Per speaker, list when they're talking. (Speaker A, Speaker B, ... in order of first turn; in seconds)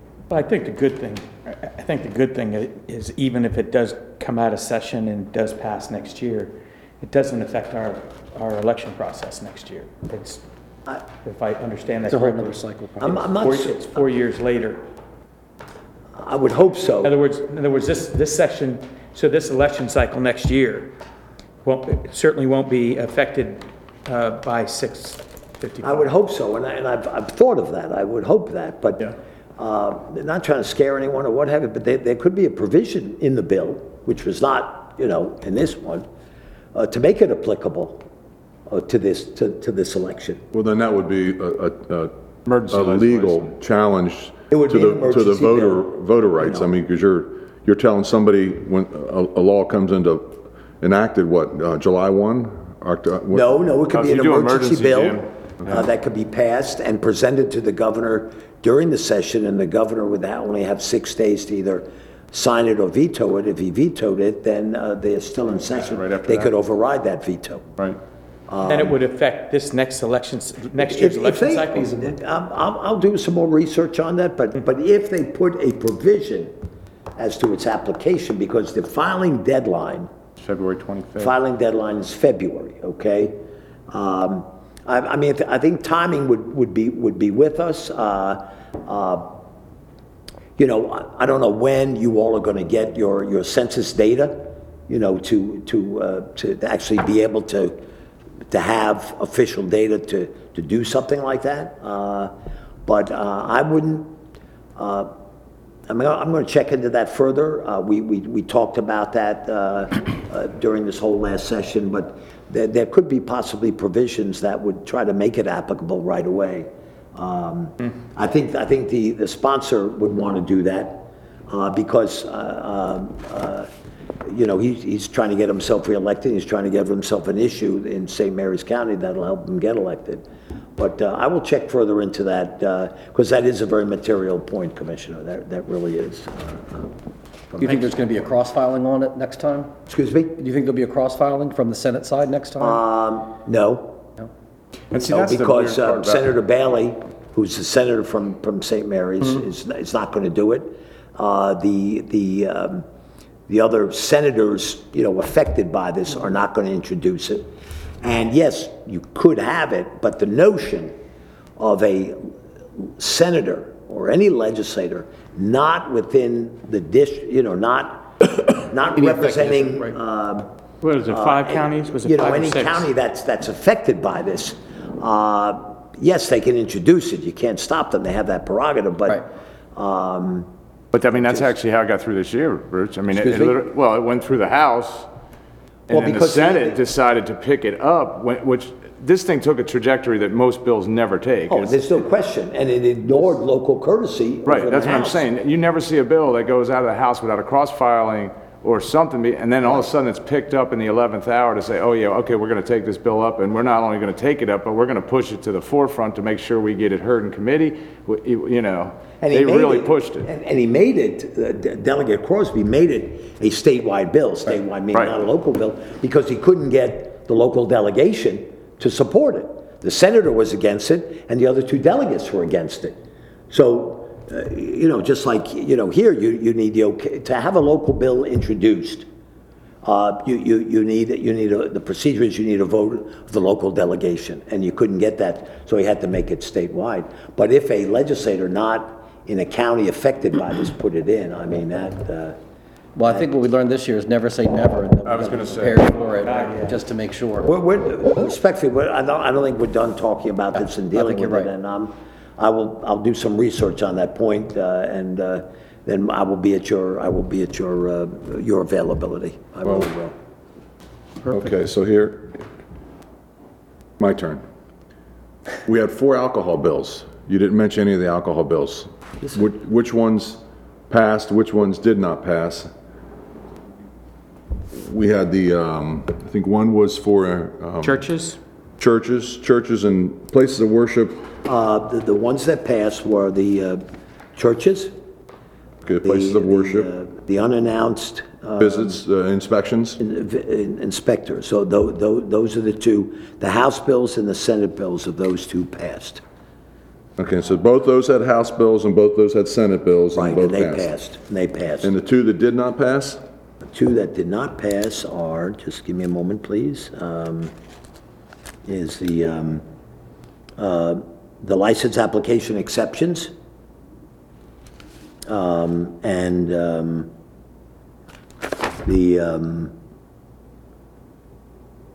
Speaker A: 0.3-10.4, 11.1-12.6, 13.3-14.8, 17.0-20.9, 21.6-26.1, 68.6-72.1, 170.8-172.9, 246.2-246.8, 277.8-278.4
Speaker B: 12.1-13.2, 137.6-139.7, 140.3-142.8, 168.9-169.9, 242.9-247.5, 250.9-251.5
Speaker C: 13.0-14.0, 16.2-17.1, 25.8-36.0, 36.7-38.0, 38.7-40.4, 44.5-46.7, 53.3-67.7, 68.5-68.9, 70.8-76.5, 77.2-80.1, 81.2-83.4, 83.9-89.4, 90.6-97.7, 98.5-102.3, 102.8-104.1, 104.8-105.1, 105.9-123.7, 124.2-130.2, 130.8-136.9, 137.5-137.9, 139.9-140.3, 142.6-144.1, 144.9-152.8, 153.5-157.5, 158.0-160.9, 161.6-170.5, 171.1-179.2, 179.7-180.5, 181.2-181.5, 183.1-183.6, 185.9-186.8, 191.5-195.3, 199.6-199.9, 209.2-223.0, 223.5-229.1, 229.8-242.4, 243.0-243.3, 247.4-260.1, 281.4-283.8, 284.3-284.9, 286.0-289.0, 290.0-296.2, 300.1-301.9, 303.6-307.5, 308.6-309.6, 310.6-313.3, 315.3-317.1, 318.8-319.7
Speaker D: 40.5-42.1, 42.7-53.6, 261.3-262.4, 264.0-264.4, 265.6-272.7, 274.7-278.0, 278.8-281.2, 285.8-286.9, 288.6-290.0, 297.2-300.9, 301.8-303.2
Speaker E: 42.5-43.5, 53.9-55.8, 65.7-66.5, 80.4-81.3, 144.9-146.3, 180.9-185.1, 185.9-192.1, 194.4-210.3, 214.9-215.2, 245.0-246.0